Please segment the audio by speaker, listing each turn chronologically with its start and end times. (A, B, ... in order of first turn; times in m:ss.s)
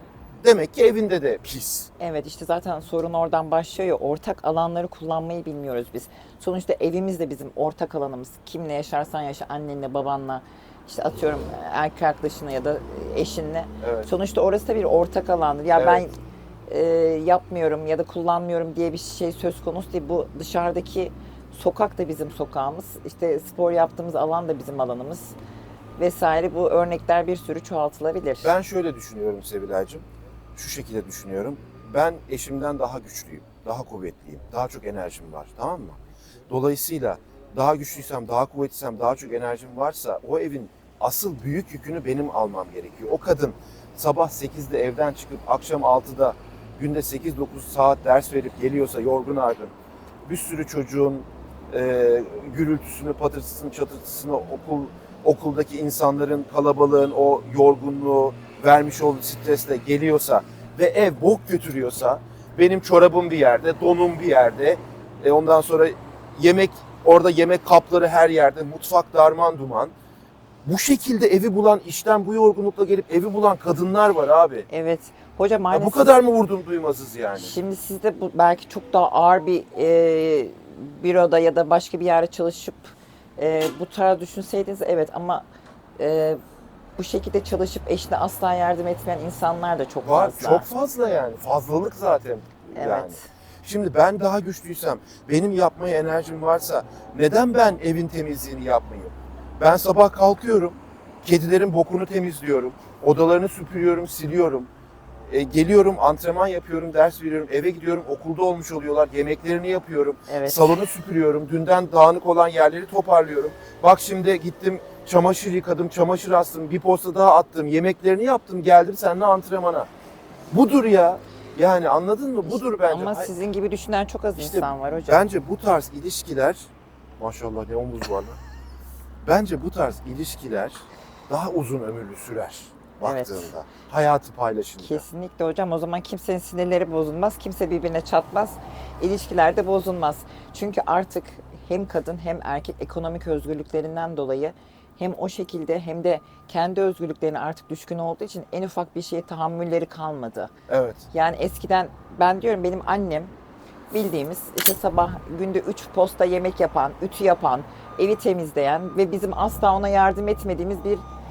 0:00.4-0:01.9 A
0:02.0-0:16.1 B
0:13.8-0:14.1 A
0:15.7-0:16.0 A
0:16.7-0:25.4 B
0:26.0-0:28.5 B
0:28.4-0:30.0 A
0:30.6-0:49.7 A
0:50.3-1:09.9 A
1:10.6-1:14.7 A
1:14.7-1:16.2 B
1:15.7-1:17.5 A
1:17.4-1:25.5 B
1:26.0-1:26.4 B
1:27.0-1:30.7 B
1:30.0-1:44.7 A
1:32.7-1:33.3 B
1:45.3-1:59.9 A
1:50.3-1:50.8 B
2:00.5-2:03.3 A
2:02.4-2:05.3 B
2:04.4-2:08.4 A
2:09.2-2:15.0 A
2:13.0-2:13.5 B
2:14.8-2:30.5 B
2:30.7-2:31.1 A
2:31.1-2:33.3 B
2:33.9-2:41.0 B